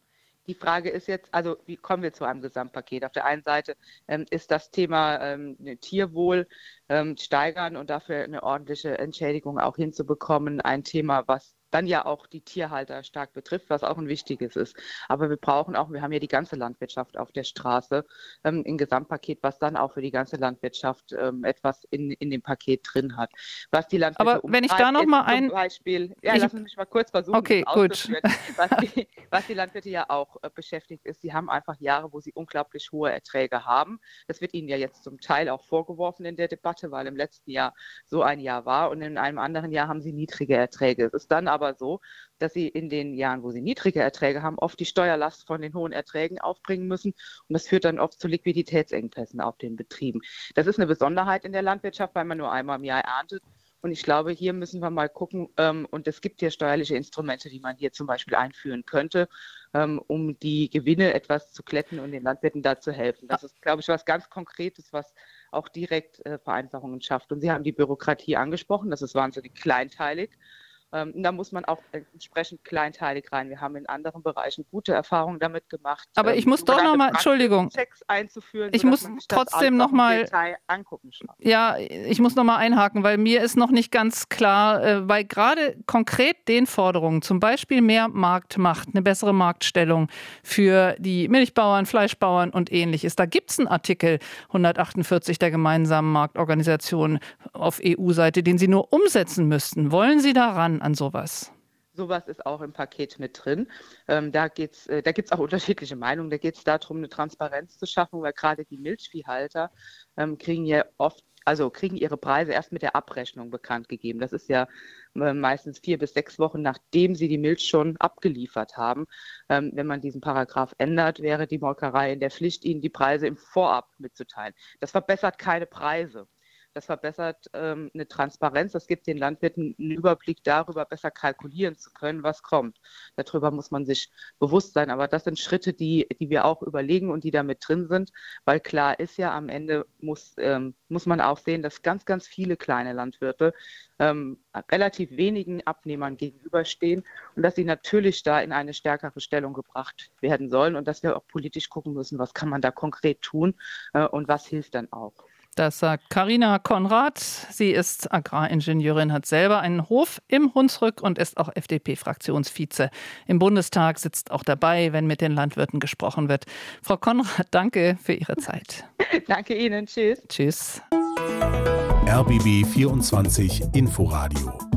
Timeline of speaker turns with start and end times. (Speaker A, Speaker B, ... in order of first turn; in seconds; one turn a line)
Speaker A: 0.5-70.4
Speaker B: 24.2-25.5
Speaker B: 27.3-28.7
Speaker A: 70.9-81.4
Speaker B: 76.2-77.7
Speaker B: 78.7-80.3
Speaker B: 81.4-101.5
Speaker A: 101.9-155.2
Speaker B: 155.6-168.8
Speaker A: 169.3-170.2
Speaker B: 170.3-170.8
Speaker C: 172.1-174.6